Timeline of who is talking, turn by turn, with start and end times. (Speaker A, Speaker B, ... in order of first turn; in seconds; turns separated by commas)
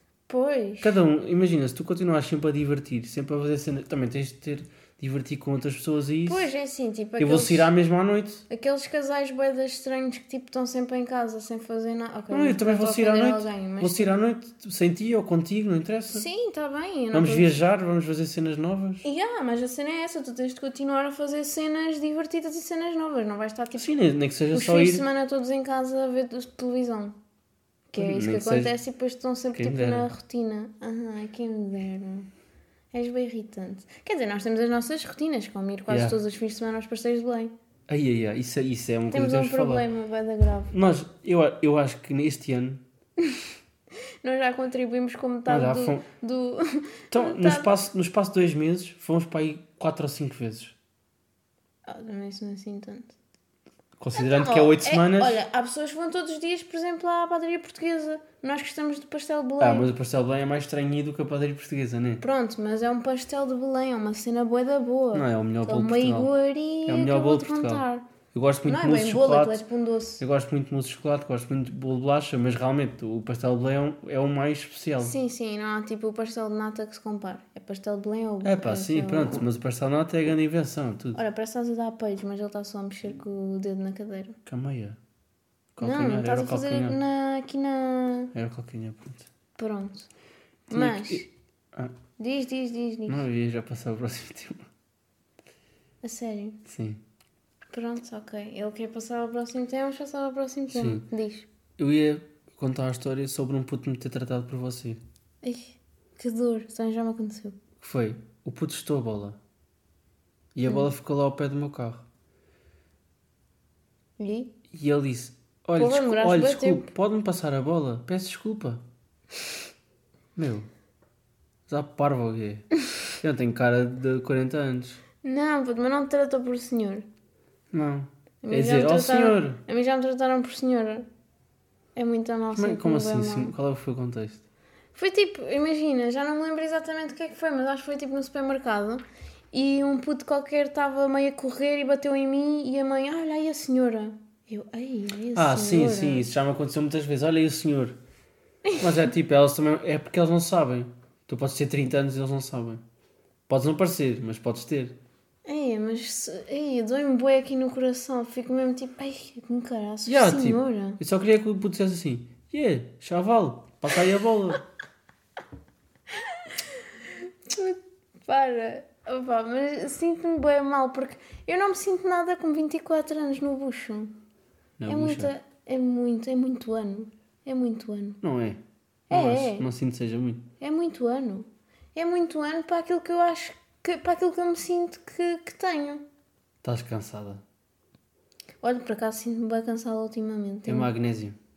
Speaker A: 0.3-1.0, Speaker B: 0.8-6.5, Speaker A: 6.2-7.7, Speaker B: 7.2-8.4, Speaker A: 8.5-14.1, Speaker B: 12.3-16.2, Speaker A: 16.1-17.5, Speaker B: 17.1-19.0, Speaker A: 19.0-23.9, Speaker B: 23.7-25.0, Speaker A: 24.5-27.1, Speaker A: 27.9-32.3, Speaker B: 28.0-28.7, Speaker B: 29.5-30.1, Speaker A: 32.9-37.5, Speaker B: 35.9-36.2, Speaker B: 37.9-39.9, Speaker A: 39.1-40.7, Speaker B: 40.7-42.8, Speaker A: 44.2-47.7, Speaker B: 45.5-46.0, Speaker B: 47.1-50.8, Speaker A: 51.9-53.1, Speaker B: 54.0-55.4, Speaker A: 54.1-59.9, Speaker B: 59.6-62.2, Speaker A: 62.2-68.1, Speaker B: 65.1-66.3, Speaker B: 66.8-69.6, Speaker A: 68.6-70.2, Speaker B: 70.2-75.1, Speaker A: 75.0-79.4, Speaker B: 78.4-81.2, Speaker A: 81.1-84.4, Speaker B: 84.5-85.0, Speaker B: 85.7-87.0, Speaker A: 85.8-88.3, Speaker B: 88.3-89.3, Speaker A: 89.6-90.1, Speaker B: 90.7-91.2, Speaker A: 90.7-91.3, Speaker A: 92.2-93.2, Speaker B: 93.1-94.7, Speaker A: 96.0-96.6, Speaker B: 96.6-97.0, Speaker A: 97.7-101.5, Speaker B: 100.7-101.0, Speaker B: 101.8-105.0, Speaker A: 105.4-107.6, Speaker B: 107.8-109.4, Speaker B: 110.5-112.0, Speaker A: 114.2-114.5, Speaker B: 114.7-118.8, Speaker A: 115.8-116.9, Speaker B: 120.3-120.7, Speaker B: 121.7-122.7, Speaker B: 123.2-125.0, Speaker A: 125.2-127.0, Speaker B: 127.7-129.6, Speaker A: 128.4-131.1, Speaker A: 131.9-133.5, Speaker B: 132.5-134.4, Speaker A: 134.9-146.3, Speaker B: 145.3-148.0, Speaker B: 148.8-152.8, Speaker B: 153.5-154.9, Speaker A: 155.4-161.0, Speaker B: 160.1-164.6, Speaker A: 167.2-174.1, Speaker B: 174.8-175.3, Speaker A: 174.9-178.2, Speaker B: 178.2-180.4, Speaker A: 179.1-179.7, Speaker A: 180.6-186.0, Speaker B: 186.6-187.4, Speaker A: 188.6-190.9, Speaker B: 190.7-191.4